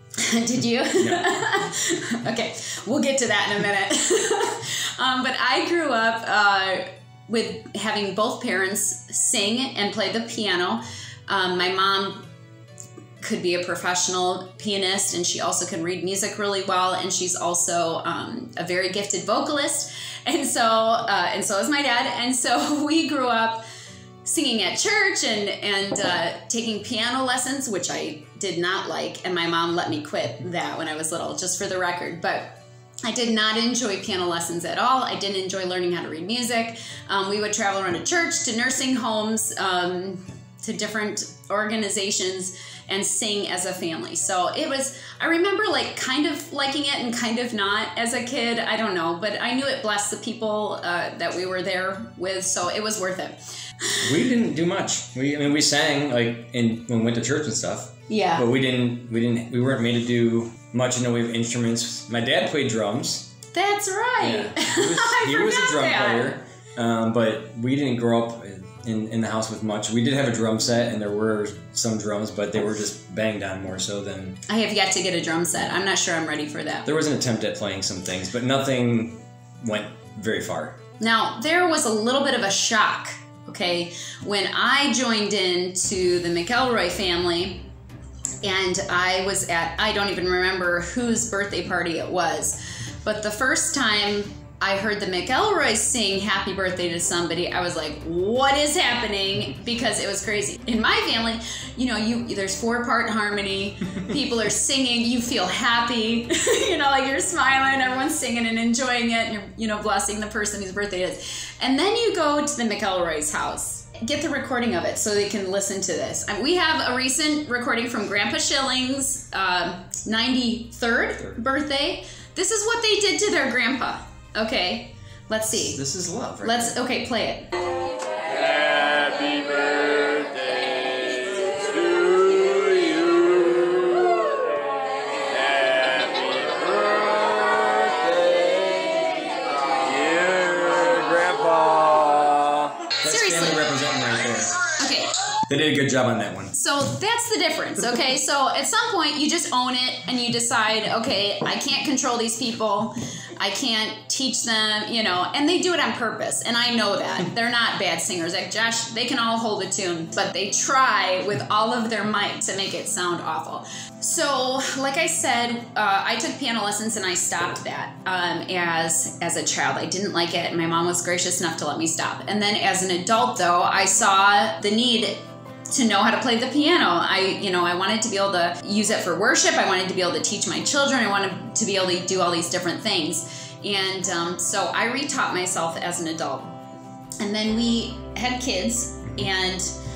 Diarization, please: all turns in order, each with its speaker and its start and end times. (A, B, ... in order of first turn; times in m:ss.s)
0:00.2-0:12.3 A
0:13.2-0:23.6 A
0:24.2-0:53.4 A
0:54.0-1:03.3 B
0:58.1-0:58.4 A
1:03.5-1:06.4 A
1:04.2-1:14.4 B
1:14.5-1:16.9 A
1:16.8-1:20.8 B
1:21.0-1:27.7 A
1:28.4-2:05.8 A
2:05.5-2:06.8 B
2:06.4-2:07.5 A
2:08.3-2:14.2 C
2:15.3-2:19.0 C
2:19.8-2:22.6 C
2:23.0-2:24.6 B
2:23.0-2:23.6 A
2:24.8-2:25.1 A
2:25.5-2:26.5 B
2:26.5-3:06.6 A
3:07.2-3:09.7 A